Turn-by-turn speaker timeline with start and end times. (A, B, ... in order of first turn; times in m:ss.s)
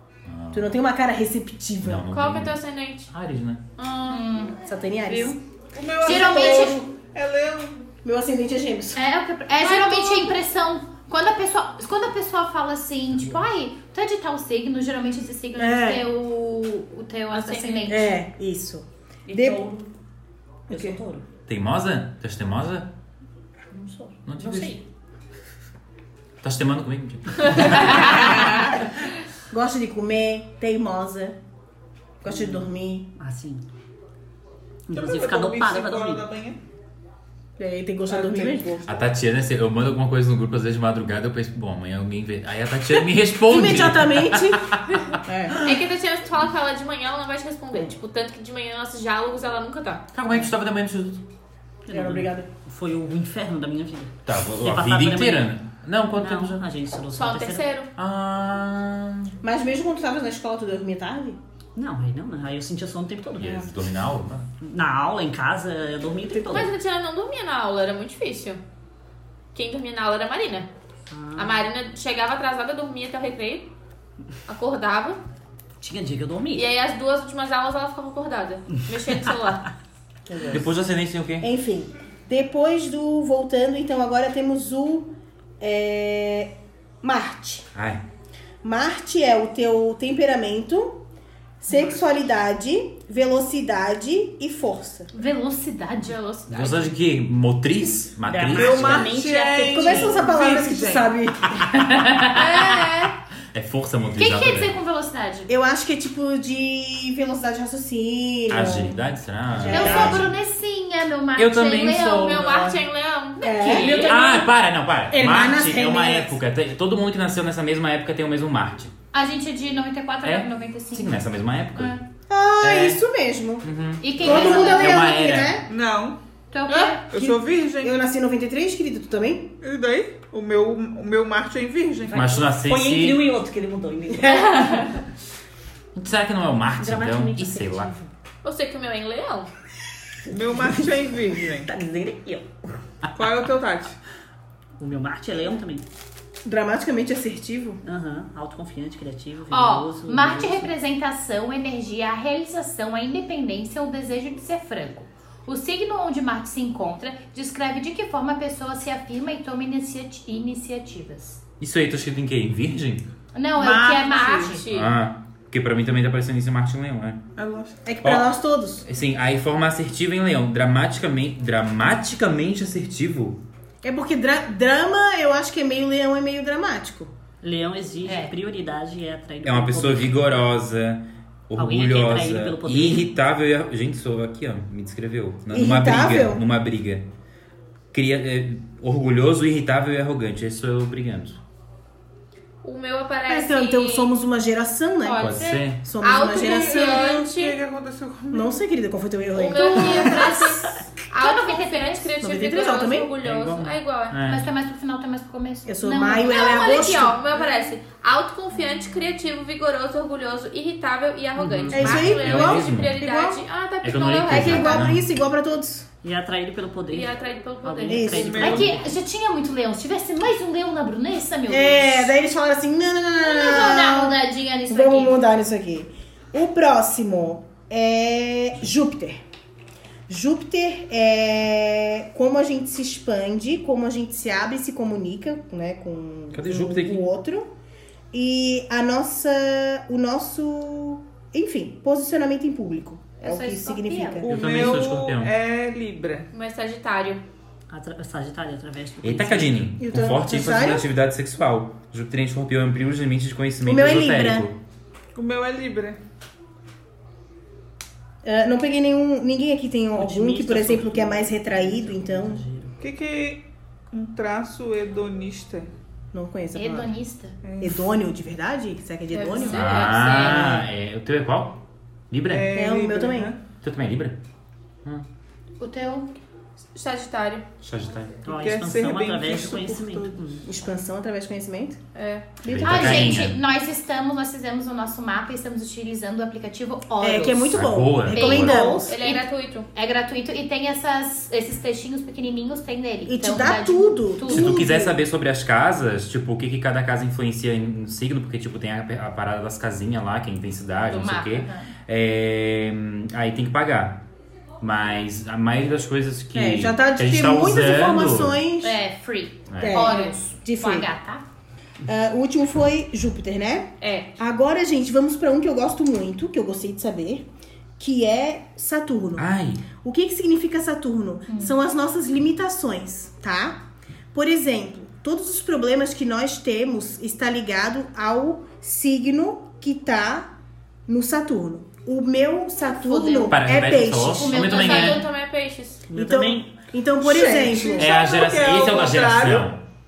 0:00.3-0:00.7 A
0:00.5-0:02.1 B
0:01.8-0:02.6 A
0:02.1-0:03.1 C
0:03.1-0:03.6 A
0:03.8-0:04.3 C
0:04.1-0:04.6 D
0:04.6-0:05.4 B
0:05.7-0:07.9 E
0:06.0-0:06.9 B
0:06.0-0:06.8 D
0:08.0-0:09.0 B
0:09.0-0:18.2 D
0:09.6-0:10.4 C
0:15.6-0:16.0 B
0:17.3-0:18.0 C
0:17.8-0:19.6 B
0:19.3-0:19.9 F
0:20.7-0:21.0 B
0:20.7-0:21.3 F
0:21.5-0:22.9 A
0:23.7-0:24.8 F
0:24.2-0:24.8 A
0:26.4-0:28.3 A
0:29.5-0:31.4 B
0:32.2-0:33.1 B
0:32.3-0:33.6 F
0:34.9-0:36.2 F
0:34.9-0:36.6 E
0:37.6-0:38.8 B
0:38.1-0:39.0 E
0:38.8-0:45.0 A
0:43.5-0:45.6 B
0:45.5-0:45.8 A
0:45.6-0:50.0 C
0:50.1-0:51.2 A
0:51.9-0:55.5 F
0:51.9-0:52.5 B
0:54.2-0:56.6 A
0:56.2-0:57.7 F
0:57.1-0:57.9 C
0:58.0-0:59.3 A
0:59.4-1:01.4 B
1:01.8-1:03.8 F
1:03.4-1:04.5 A
1:04.6-1:06.7 F
1:06.3-1:06.6 B
1:06.4-1:08.6 C
1:09.5-1:10.7 C
1:11.1-1:11.6 F
1:11.3-1:13.7 C
1:14.5-1:15.2 C
1:15.8-1:16.7 F
1:16.5-1:19.7 C
1:20.3-1:20.7 B
1:20.5-1:21.5 A
1:21.4-1:27.6 B
1:27.7-1:28.0 A
1:28.6-1:31.0 B
1:31.6-1:35.1 B
1:35.1-1:36.2 D
1:36.0-1:36.9 C
1:36.5-1:39.1 A
1:38.3-1:40.3 F
1:38.5-1:41.1 E
1:39.7-1:41.8 B
1:41.7-1:43.1 D
1:42.4-1:43.1 C
1:43.5-1:44.7 A
1:44.2-1:45.5 D
1:45.5-1:49.0 B
1:48.5-1:50.3 A
1:49.5-1:50.3 B
1:49.7-1:52.4 D
1:49.7-1:50.2 F
1:51.4-1:52.8 A
1:52.0-1:54.1 C
1:53.4-1:54.2 D
1:53.4-1:54.5 B
1:54.0-1:58.9 A
1:55.1-1:56.4 B
1:59.1-2:01.2 D
2:00.2-2:02.0 A
2:01.7-2:02.0 D
2:02.3-2:03.6 B
2:02.6-2:03.0 A
2:03.6-2:05.6 A
2:04.0-2:05.2 D
2:04.2-2:05.7 B
2:05.6-2:06.2 E
2:06.5-2:07.1 D
2:06.7-2:08.0 E
2:07.1-2:09.5 B
2:09.6-2:12.5 E
2:12.1-2:13.3 A
2:12.5-2:14.9 F
2:15.9-2:17.9 A
2:16.8-2:18.1 F
2:18.4-2:19.5 C
2:20.3-2:21.7 E
2:20.4-2:20.8 F
2:21.6-2:22.5 F
2:23.1-2:24.0 E
2:24.8-2:25.8 F
2:26.4-2:27.8 B
2:27.8-2:30.7 F
2:29.5-2:41.4 D
2:41.6-2:43.0 A
2:43.3-2:44.7 D
2:43.6-2:44.9 C
2:44.7-2:47.2 A
2:47.4-2:47.8 E
2:47.8-2:48.8 B
2:48.0-2:48.3 A
2:48.8-2:53.4 A
2:53.8-2:57.1 B
2:57.4-3:00.4 F
2:58.0-2:58.3 D
2:59.4-3:07.1 A
3:01.6-3:03.1 F
3:05.5-3:06.4 B
3:07.9-3:11.4 A
3:12.6-3:14.1 C
3:13.3-3:17.3 B
3:15.0-3:17.6 C
3:15.2-3:15.8 A
3:16.4-3:18.6 E
3:18.3-3:20.4 B
3:19.4-3:24.2 C
3:19.4-3:20.6 D
3:21.1-3:22.1 D
3:22.2-3:23.1 B
3:23.2-3:24.5 A
3:24.2-3:26.7 D
3:25.6-3:27.4 B
3:26.3-3:34.9 C
3:31.4-3:33.0 A
3:31.7-3:33.4 B
3:33.8-3:35.0 A
3:34.3-3:35.9 B
3:36.0-3:39.0 F
3:36.9-3:38.2 C
3:37.8-3:38.6 B
3:38.1-3:38.7 E
3:38.4-3:42.1 D
3:41.5-3:49.2 B
3:43.2-3:45.2 D
3:50.1-3:57.5 B
3:56.3-3:57.0 A
3:58.1-4:04.4 B
4:03.2-4:04.0 C
4:03.2-4:04.2 D
4:04.2-4:06.3 E
4:04.3-4:05.3 A
4:06.3-4:07.2 C
4:07.7-4:09.7 F
4:09.0-4:14.6 A
4:09.8-4:10.9 B
4:13.6-4:14.5 B
4:15.1-4:16.0 E
4:18.2-4:22.4 B
4:20.0-4:22.8 F
4:22.8-4:25.7 E
4:26.1-4:26.9 B
4:26.5-4:27.4 D
4:27.4-4:27.9 E
4:27.6-4:30.6 B
4:29.1-4:30.6 C
4:29.4-4:32.5 A
4:32.2-4:33.4 E
4:32.5-4:33.3 B
4:33.6-4:34.2 A
4:35.6-4:36.1 D
4:36.7-4:37.4 C
4:37.6-4:38.1 A
4:38.2-4:40.4 F
4:38.3-4:40.4 E
4:40.4-4:41.8 B
4:41.9-4:42.3 C
4:42.4-4:43.2 B
4:42.4-4:43.4 A
4:42.6-4:54.6 D
4:47.0-4:48.9 B
4:47.5-4:48.7 A
4:48.4-4:49.7 C
4:53.0-4:55.0 B
4:54.3-5:04.0 A
5:00.9-5:01.7 D
5:04.6-5:08.4 A
5:06.3-5:08.8 B
5:08.6-5:11.2 D
5:09.5-5:09.9 A
5:09.6-5:10.9 B
5:09.9-5:10.1 C
5:11.8-5:17.2 B
5:13.8-5:14.1 C
5:17.8-5:30.3 B
5:19.2-5:19.6 A
5:21.3-5:21.5 D
5:30.9-5:34.4 B
5:32.7-5:33.5 D
5:33.3-5:35.0 A
5:34.0-5:35.0 D
5:34.4-5:35.8 C
5:35.9-5:36.5 F
5:35.9-5:37.9 B
5:37.0-5:39.5 E
5:37.7-5:39.6 A